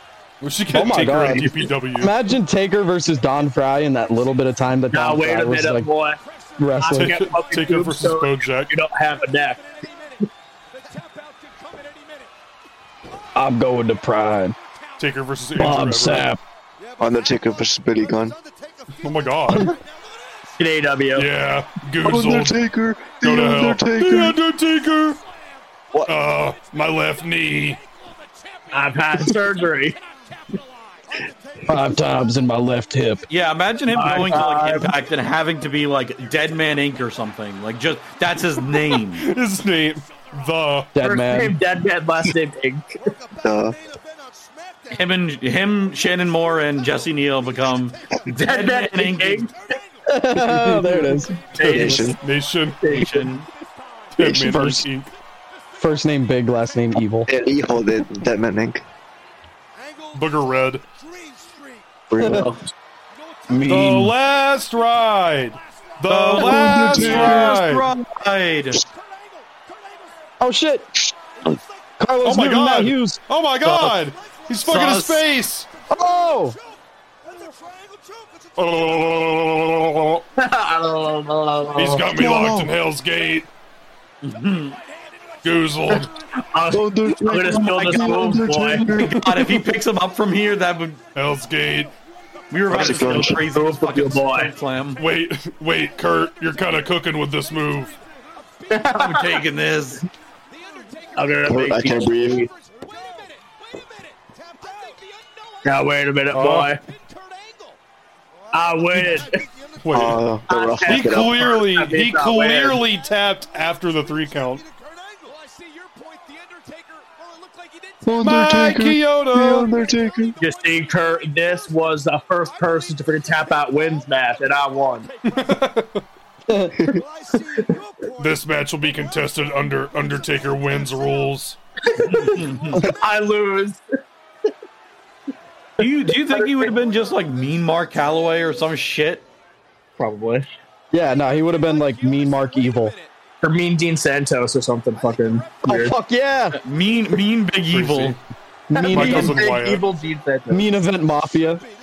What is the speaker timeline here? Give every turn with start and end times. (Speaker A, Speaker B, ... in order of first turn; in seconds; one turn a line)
Speaker A: 0.4-2.1
Speaker B: 0.7-5.9
Speaker C: 4.9-6.2
Speaker B: 6.6-7.2
Speaker C: 6.8-9.6
Speaker A: 6.9-8.7
Speaker B: 13.3-14.6
Speaker A: 15.0-16.3
Speaker B: 15.5-16.4
Speaker D: 17.0-18.4
Speaker A: 19.0-19.7
Speaker C: 20.6-21.3
Speaker A: 21.1-22.5
Speaker D: 22.0-24.4
Speaker A: 23.2-25.2
Speaker A: 26.1-27.8
Speaker C: 28.7-30.0
Speaker B: 31.7-33.2
Speaker E: 33.3-39.2
Speaker C: 33.9-34.9
Speaker A: 38.8-40.9
Speaker B: 40.9-41.6
Speaker C: 41.0-42.9
Speaker D: 43.4-43.8
Speaker E: 44.9-49.5
Speaker C: 48.4-49.5
Speaker B: 50.1-51.4
Speaker A: 50.4-53.1
Speaker C: 51.6-52.1
Speaker D: 51.6-52.2
Speaker C: 52.8-53.3
Speaker E: 52.9-53.5
Speaker A: 54.1-55.1
Speaker B: 54.2-54.9
Speaker B: 55.8-57.3
Speaker D: 57.3-58.8
Speaker A: 60.1-60.8
Speaker D: 62.1-62.6
Speaker B: 62.2-62.5
Speaker C: 62.2-62.7
Speaker B: 63.5-64.1
Speaker A: 63.7-67.9
Speaker E: 66.1-68.8
Speaker D: 66.4-67.5
Speaker B: 70.4-70.9
Speaker D: 71.0-71.6
Speaker B: 72.0-73.2
Speaker A: 72.2-75.7
Speaker E: 73.6-74.0
Speaker E: 74.6-75.2
Speaker B: 75.9-76.6
Speaker A: 78.6-80.2
Speaker C: 80.4-82.1
Speaker A: 81.7-83.5
Speaker D: 82.1-82.7
Speaker E: 84.2-84.8
Speaker A: 85.4-86.1
Speaker C: 85.9-88.9
Speaker D: 86.7-89.3
Speaker A: 89.0-89.4
Speaker E: 89.0-91.0
Speaker A: 91.1-91.9
Speaker E: 92.5-95.0
Speaker D: 92.7-93.4
Speaker C: 93.0-94.5
Speaker A: 95.0-98.0
Speaker C: 98.7-99.4
Speaker E: 98.9-100.0
Speaker C: 101.2-102.4
Speaker D: 101.4-102.5
Speaker C: 105.6-106.8
Speaker A: 106.3-106.7
Speaker C: 108.5-109.3
Speaker A: 109.8-110.3
Speaker D: 109.9-111.6
Speaker C: 110.5-112.8
Speaker A: 110.8-114.6
Speaker D: 118.0-120.4
Speaker A: 118.2-119.7
Speaker C: 120.4-125.1
Speaker A: 125.2-126.0
Speaker B: 126.5-126.8
Speaker A: 128.2-131.6
Speaker C: 131.9-133.8
Speaker E: 132.1-132.8
Speaker E: 135.8-139.2
Speaker C: 135.8-136.7
Speaker C: 140.0-140.5
Speaker B: 140.9-142.9
Speaker C: 143.4-145.9
Speaker B: 145.6-146.6
Speaker E: 146.5-148.2
Speaker A: 147.7-148.2
Speaker B: 148.7-149.4
Speaker C: 148.8-150.6
Speaker A: 148.9-149.8
Speaker B: 150.5-151.6